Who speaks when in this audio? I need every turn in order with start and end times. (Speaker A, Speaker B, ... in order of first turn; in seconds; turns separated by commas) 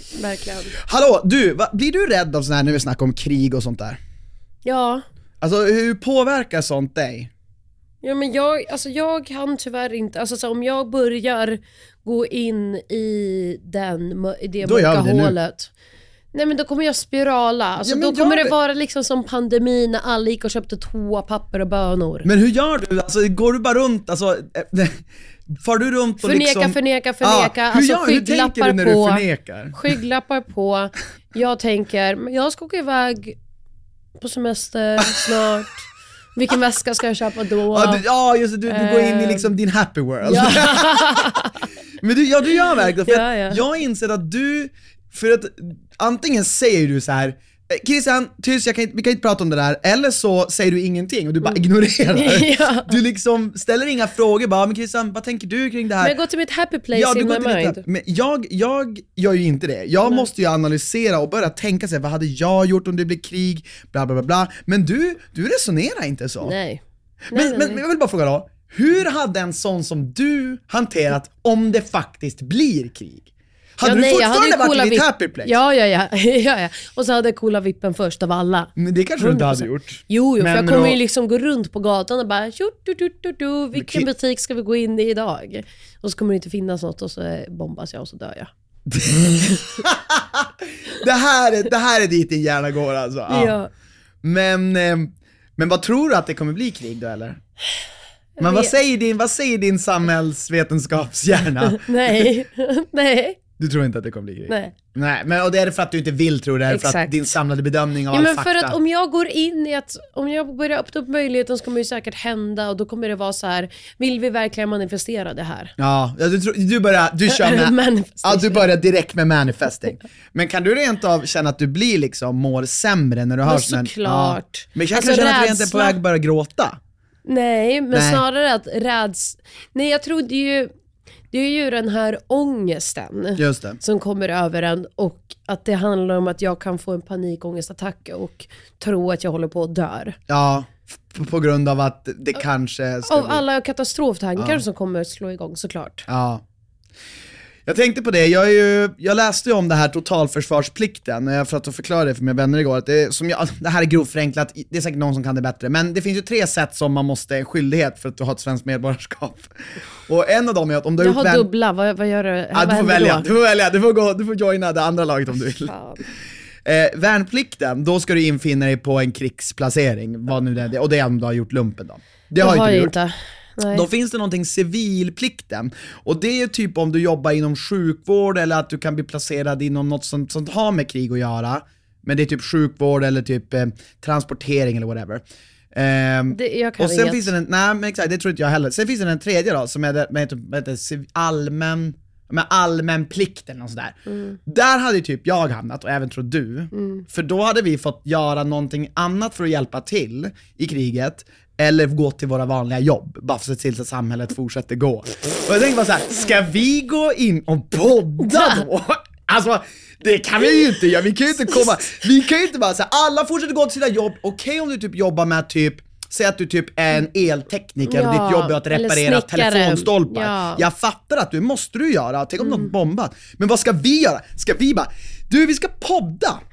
Speaker A: 0.2-0.8, Speaker B: 0.8-4.0, Speaker A: 4.7-5.0, Speaker B: 5.4-7.3, Speaker A: 8.0-15.7, Speaker B: 14.6-15.4, Speaker A: 16.3-22.3, Speaker B: 17.8-18.5, Speaker B: 22.2-29.9, Speaker A: 26.2-33.4, Speaker A: 34.2-35.8, Speaker A: 36.4-38.0, Speaker B: 37.7-41.5, Speaker A: 38.7-39.5, Speaker A: 40.2-41.5, Speaker B: 42.0-56.2, Speaker A: 43.0-43.6, Speaker A: 52.1-53.0, Speaker A: 56.0-57.8, Speaker B: 56.9-66.6, Speaker A: 66.4-66.8, Speaker A: 67.3-67.8, Speaker B: 67.3-73.3, Speaker B: 73.8-75.5, Speaker A: 73.8-88.5, Speaker B: 78.8-81.0, Speaker B: 83.8-84.1, Speaker B: 88.9-93.6, Speaker A: 93.3-93.7, Speaker B: 94.2-97.4, Speaker A: 98.4-98.7, Speaker B: 98.4-102.3, Speaker A: 101.7-103.4, Speaker B: 103.6-108.8, Speaker A: 104.5-104.8, Speaker A: 106.7-107.3, Speaker A: 108.1-115.7, Speaker B: 115.8-126.8, Speaker A: 117.3-118.7, Speaker A: 123.5-126.0, Speaker A: 127.2-130.7, Speaker B: 127.9-128.2, Speaker A: 131.3-140.2, Speaker B: 133.4-133.8, Speaker B: 140.3-143.4, Speaker A: 143.1-146.1, Speaker B: 146.1-146.4, Speaker B: 147.7-159.5, Speaker B: 160.1-161.5, Speaker A: 161.0-163.2, Speaker B: 162.5-165.7, Speaker A: 165.6-166.0, Speaker B: 166.7-172.9, Speaker A: 172.4-173.9, Speaker B: 173.7-226.4, Speaker A: 186.3-187.3, Speaker A: 194.1-194.4, Speaker A: 196.7-197.1, Speaker A: 208.2-208.6, Speaker A: 211.4-211.7, Speaker A: 217.8-220.7, Speaker A: 222.4-222.7